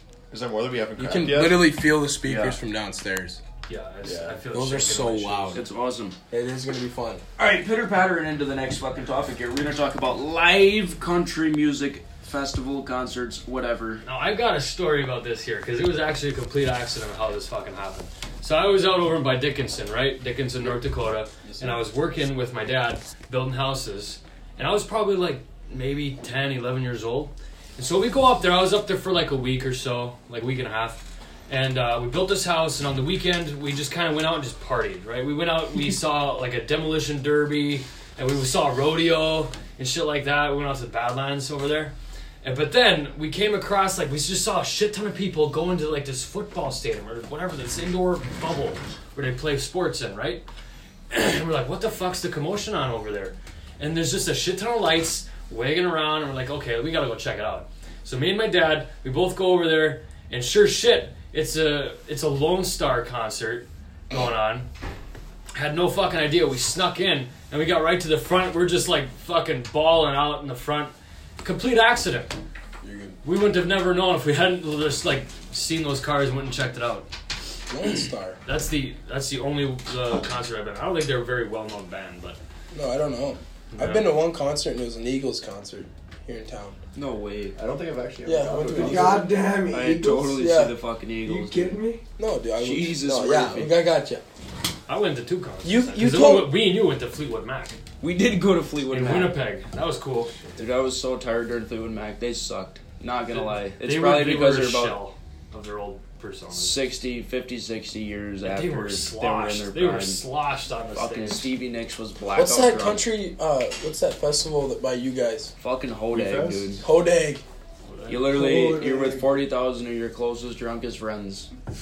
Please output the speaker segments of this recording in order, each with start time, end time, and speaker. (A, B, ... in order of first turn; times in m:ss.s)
0:00.3-0:02.6 A
0:01.0-0:03.4 B
0:03.7-0:05.6 C
0:04.0-0:04.4 A
0:04.5-0:05.6 B
0:05.5-0:06.2 D
0:06.3-0:07.2 B
0:07.4-0:14.0 D
0:14.0-0:50.4 C
0:51.1-1:04.7 C
1:05.5-1:12.3 C
1:12.8-1:13.1 B
1:13.2-1:17.1 C
1:17.7-1:18.4 B
1:18.4-1:22.4 C
1:22.7-1:26.8 B
1:23.7-1:24.1 C
1:26.9-1:27.6 D
1:27.5-1:29.3 A
1:28.2-1:29.2 B
1:28.8-1:30.3 E
1:29.7-1:31.8 D
1:30.3-1:30.7 B
1:31.2-1:32.0 E
1:32.2-1:34.2 B
1:32.6-1:33.8 D
1:34.9-1:37.8 C
1:35.6-1:36.5 B
1:38.0-1:39.4 D
1:38.9-1:40.3 C
1:40.6-1:45.0 D
1:43.3-1:46.8 C
1:46.5-1:50.2 D
1:48.4-1:51.5 C
1:50.9-1:53.0 D
1:52.4-1:55.5 B
1:55.6-1:56.8 D
1:56.1-1:56.7 A
1:56.8-1:57.4 B
1:57.8-1:58.3 C
1:58.1-2:01.5 D
1:58.3-1:59.2 E